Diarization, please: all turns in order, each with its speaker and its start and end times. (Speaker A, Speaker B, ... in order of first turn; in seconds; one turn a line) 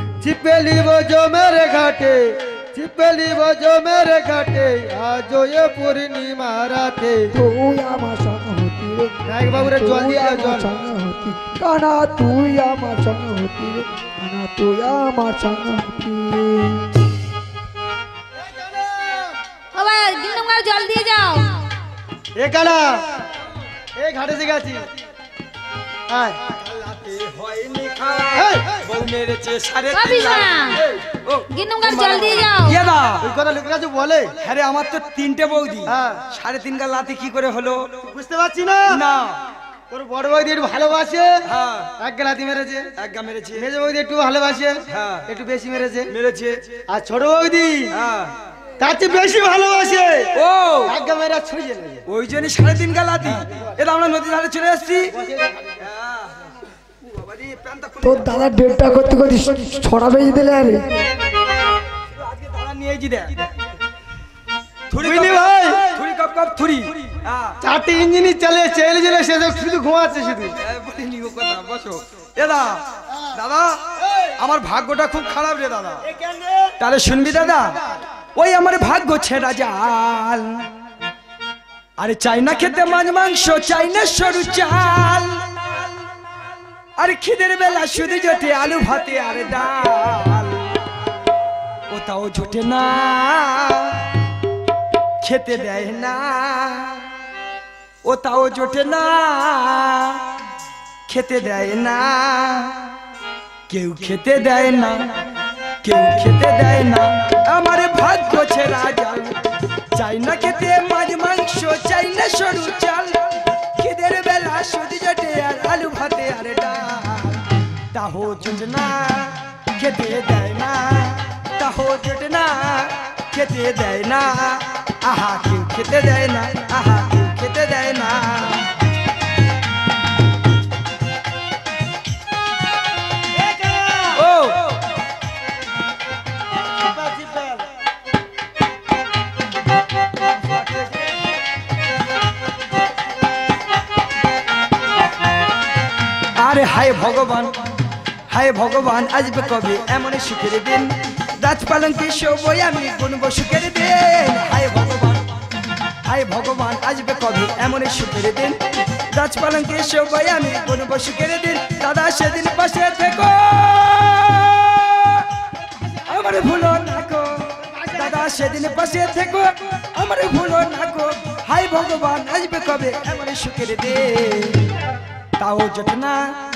Speaker A: 0.2-7.3
Speaker B: 7.3-17.0
Speaker A: 9.3-10.7
Speaker C: 19.7-21.4
Speaker A: 22.4-23.0
Speaker A: 24.0-24.8
Speaker A: 26.1-26.4
Speaker D: 26.6-33.3
Speaker A: 28.3-28.8
Speaker C: 29.9-30.8
Speaker C: 31.5-32.8
Speaker A: 33.2-34.3
Speaker D: 34.4-37.9
Speaker A: 35.9-36.2
Speaker A: 38.1-39.0
Speaker D: 38.9-39.4
Speaker A: 39.9-41.3
Speaker D: 41.5-41.9
Speaker A: 42.0-42.9
Speaker D: 43.0-43.6
Speaker A: 43.5-46.1
Speaker D: 44.9-45.3
Speaker D: 46.1-46.6
Speaker A: 46.9-47.9
Speaker D: 47.9-48.3
Speaker A: 48.8-50.3
Speaker D: 50.3-50.9
Speaker A: 50.9-52.0
Speaker D: 52.1-55.1
Speaker A: 53.4-53.7
Speaker A: 55.1-55.7
Speaker D: 55.8-58.5
Speaker B: 58.0-61.0
Speaker D: 62.2-63.5
Speaker D: 64.9-67.6
Speaker A: 65.0-65.9
Speaker A: 67.6-70.5
Speaker D: 70.6-72.8
Speaker D: 73.3-73.8
Speaker D: 74.4-76.0
Speaker A: 76.0-76.7
Speaker D: 76.8-77.7
Speaker D: 78.3-80.7
Speaker D: 82.0-85.5
Speaker D: 87.0-90.7
Speaker D: 91.9-94.1
Speaker D: 95.2-97.1
Speaker D: 98.0-100.2
Speaker D: 101.1-102.9
Speaker D: 103.7-105.2
Speaker D: 105.8-109.4
Speaker D: 110.0-113.2
Speaker D: 113.8-128.7
Speaker A: 133.3-134.2
Speaker D: 134.1-134.7
Speaker A: 136.8-137.6
Speaker D: 140.5-140.8
Speaker D: 146.3-147.6
Speaker D: 148.3-155.2
Speaker D: 156.1-158.6
Speaker D: 159.1-165.3
Speaker D: 166.1-174.6
Speaker A: 167.8-168.3
Speaker D: 175.4-176.3